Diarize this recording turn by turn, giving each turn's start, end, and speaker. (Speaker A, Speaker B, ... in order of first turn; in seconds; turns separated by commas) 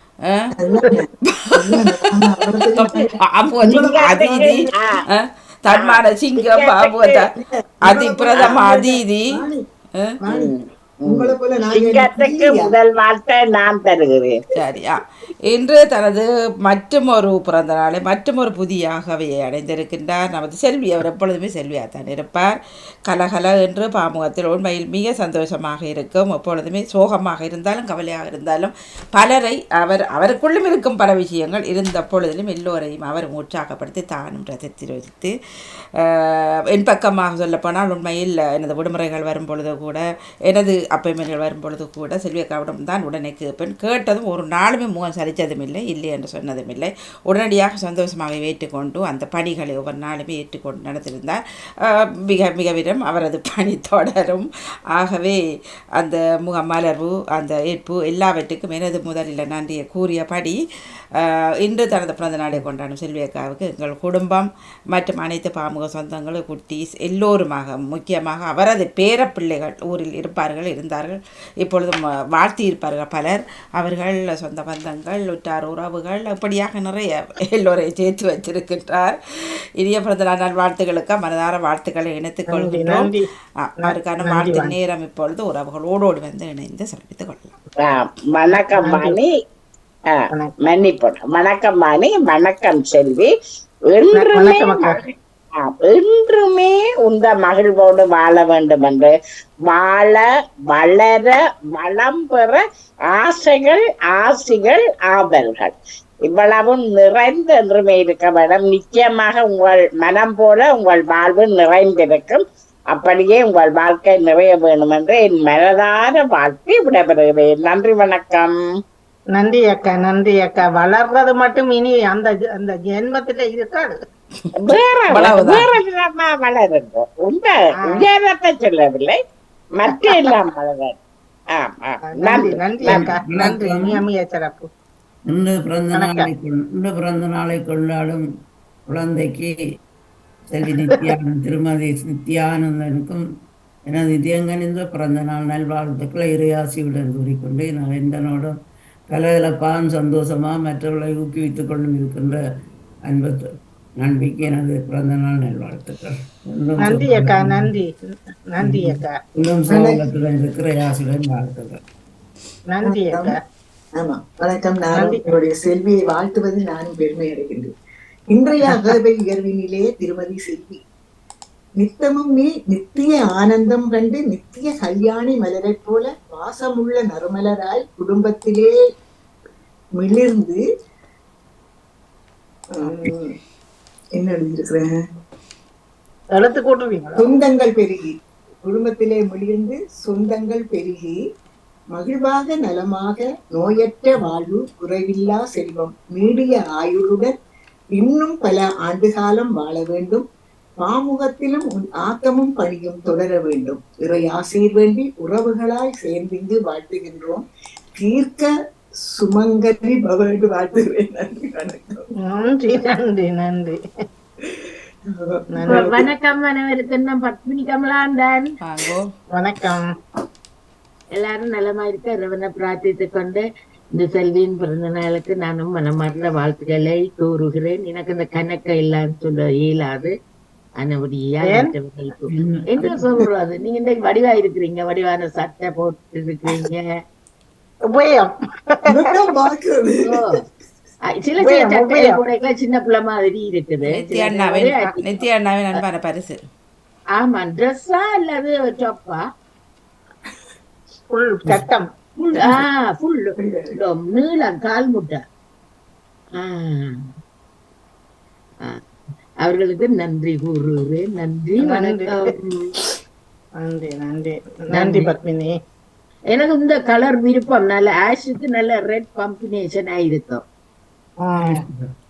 Speaker A: 0.6-3.1, Speaker B: 1.3-2.2, Speaker B: 2.8-7.3, Speaker A: 3.6-4.5, Speaker C: 3.9-5.0, Speaker C: 5.7-7.2, Speaker A: 7.4-9.6, Speaker B: 7.9-9.3, Speaker A: 10.3-10.5, Speaker C: 10.3-14.3, Speaker A: 11.1-12.7, Speaker B: 14.6-22.5, Speaker B: 23.1-35.3, Speaker B: 36.0-55.4, Speaker B: 56.0-60.6, Speaker B: 61.2-79.2, Speaker B: 79.8-83.1, Speaker D: 82.5-83.2, Speaker B: 83.6-87.5, Speaker D: 83.9-84.7, Speaker C: 87.8-89.3, Speaker D: 88.8-89.2, Speaker C: 90.1-93.3, Speaker C: 93.9-99.1, Speaker D: 94.1-95.0, Speaker C: 99.7-105.8, Speaker C: 106.3-118.6, Speaker D: 119.4-124.0, Speaker C: 124.5-129.2, Speaker B: 125.1-125.7, Speaker D: 127.8-128.1, Speaker C: 129.8-131.0, Speaker D: 129.9-130.3, Speaker C: 131.5-133.1, Speaker D: 132.1-134.7, Speaker E: 132.8-134.0, Speaker E: 135.3-138.2, Speaker D: 135.9-136.3, Speaker E: 138.9-139.6, Speaker E: 140.5-143.2, Speaker E: 143.9-148.6, Speaker E: 149.1-152.4, Speaker E: 153.1-153.5, Speaker E: 154.0-157.7, Speaker D: 156.8-157.9, Speaker D: 158.5-159.1, Speaker E: 158.6-161.8, Speaker A: 159.7-160.0, Speaker D: 162.7-163.4, Speaker A: 162.8-163.4, Speaker A: 164.0-167.7, Speaker D: 165.0-165.2, Speaker A: 168.3-170.8, Speaker A: 171.8-178.8, Speaker A: 180.0-180.6, Speaker A: 182.7-183.4, Speaker A: 184.2-184.9, Speaker D: 186.3-187.3, Speaker A: 187.2-191.1, Speaker A: 191.9-197.3, Speaker A: 198.0-200.2, Speaker A: 200.8-207.4, Speaker A: 208.0-208.5, Speaker A: 209.2-212.1, Speaker D: 212.2-213.8, Speaker A: 215.1-216.1, Speaker D: 215.5-216.0, Speaker F: 215.7-218.6, Speaker B: 218.6-219.1, Speaker D: 219.3-219.9, Speaker F: 221.2-230.1, Speaker F: 230.8-236.9, Speaker D: 231.5-231.7, Speaker E: 232.3-232.9, Speaker D: 237.9-239.0, Speaker A: 238.9-240.3, Speaker F: 240.0-240.4, Speaker F: 241.1-245.2, Speaker D: 241.4-242.2, Speaker B: 243.9-246.4, Speaker F: 247.2-249.2, Speaker D: 251.1-251.9, Speaker F: 252.3-255.2, Speaker A: 253.4-253.8, Speaker F: 256.4-256.9, Speaker F: 259.4-262.7, Speaker D: 261.6-262.3, Speaker D: 263.6-265.5, Speaker F: 264.7-265.1, Speaker F: 266.3-270.4, Speaker D: 271.2-271.6, Speaker E: 271.4-271.9